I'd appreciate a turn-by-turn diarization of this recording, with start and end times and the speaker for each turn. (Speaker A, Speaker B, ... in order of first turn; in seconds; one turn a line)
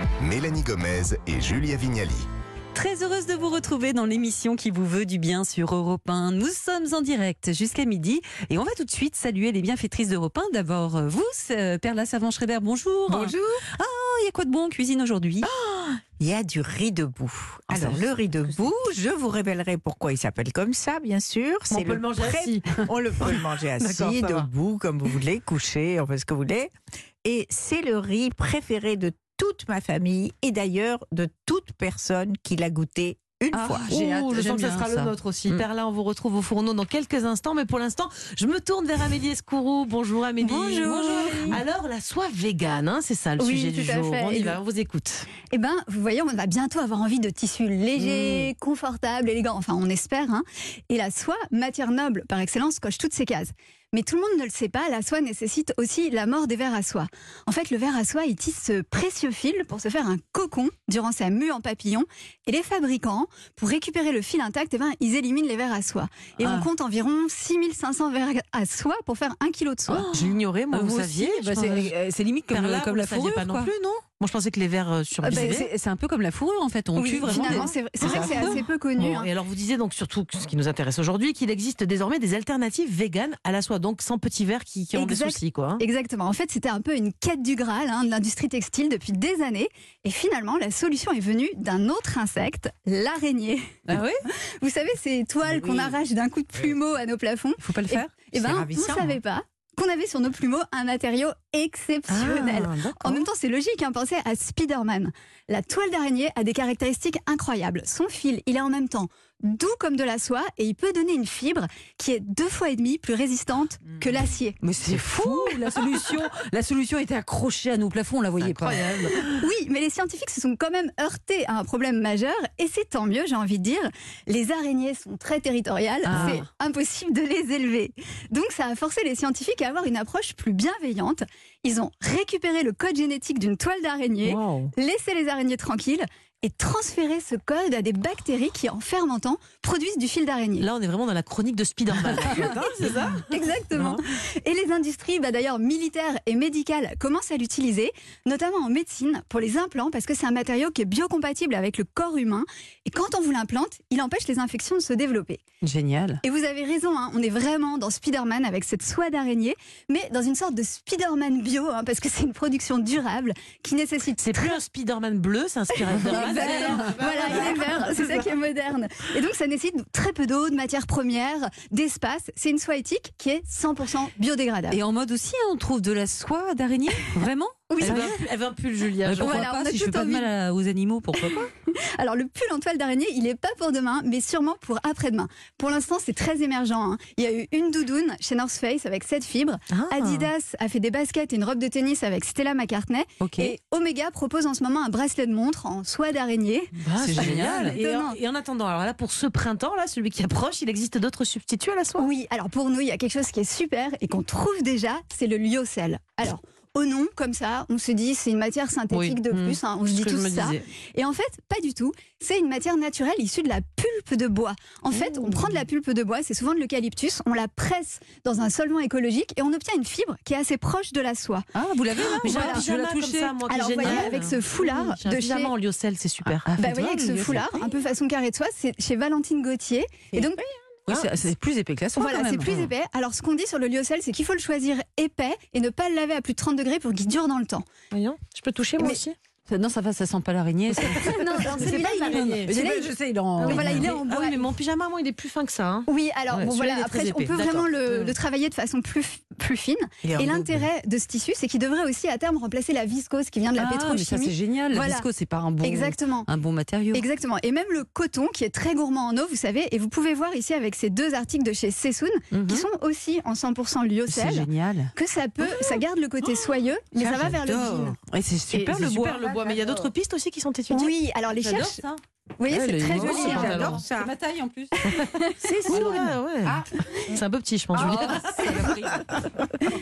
Speaker A: 0.2-2.3
Speaker B: 2.7-15.5
Speaker C: 13.1-13.7
Speaker C: 15.4-26.7
Speaker D: 17.7-18.1
Speaker D: 21.7-24.5
Speaker C: 27.2-34.0
Speaker B: 33.5-35.6
Speaker D: 33.9-45.3
Speaker B: 40.4-41.6
Speaker E: 43.4-44.6
Speaker E: 45.5-70.1
Speaker B: 48.0-48.4
Speaker B: 66.4-66.7
Speaker B: 69.9-73.7
Speaker D: 70.1-71.9
Speaker D: 72.5-75.7
Speaker B: 75.2-78.5
Speaker E: 75.3-75.6
Speaker E: 77.0-79.3
Speaker D: 77.3-85.8
Speaker E: 84.9-94.0
Speaker D: 93.9-94.2
Speaker E: 94.6-114.6
Speaker D: 95.5-96.0
Speaker B: 97.6-98.2
Speaker C: 98.3-99.2
Speaker D: 102.1-103.2
Speaker B: 114.6-119.2
Speaker D: 114.9-115.3
Speaker D: 118.4-119.5
Speaker E: 119.4-140.7
Speaker B: 126.0-126.5
Speaker D: 126.1-126.4
Speaker D: 134.2-134.7
Speaker D: 140.6-144.0
Speaker E: 142.3-155.4
Speaker B: 155.6-156.2
Speaker E: 156.2-164.6
Speaker D: 164.2-168.1
Speaker E: 165.9-174.8
Speaker B: 166.0-167.4
Speaker B: 174.7-178.2
Speaker E: 177.7-178.3
Speaker D: 177.8-179.5
Speaker B: 179.1-181.5
Speaker E: 179.2-180.3
Speaker E: 182.0-198.2
Speaker D: 189.7-190.3
Speaker D: 193.2-193.5
Speaker D: 196.8-202.1
Speaker B: 197.0-198.1
Speaker E: 202.0-222.7
Speaker D: 208.9-210.7
Speaker D: 215.0-215.6
Speaker B: 221.5-224.2
Speaker D: 222.0-226.5
Speaker E: 223.5-225.5
Speaker B: 226.4-227.8
Speaker E: 226.6-231.1
Speaker C: 230.1-230.4
Speaker B: 230.9-232.7
Speaker E: 231.9-237.7
Speaker D: 237.9-239.2
Speaker B: 239.5-243.9
Speaker D: 240.8-242.6
Speaker E: 240.8-242.9
Speaker D: 243.4-248.1
Speaker E: 243.5-244.4
Speaker E: 245.9-255.1
Speaker C: 250.0-250.6
Speaker B: 253.6-257.1
Speaker E: 255.6-256.3
Speaker E: 256.9-268.0
Speaker B: 262.3-262.7
Speaker B: 264.1-264.9
Speaker D: 267.0-267.9
Speaker B: 267.3-269.7
Speaker D: 268.5-271.0
Speaker E: 270.7-271.8
Speaker B: 271.4-272.0
Speaker E: 272.4-273.8
Speaker D: 272.5-273.8
Speaker C: 272.9-274.1
Speaker B: 273.0-274.9
Speaker E: 275.0-275.6
Speaker C: 275.4-276.1
Speaker D: 275.7-278.1
Speaker B: 275.7-276.9
Speaker B: 277.8-279.2
Speaker C: 277.8-278.6
Speaker E: 277.9-278.6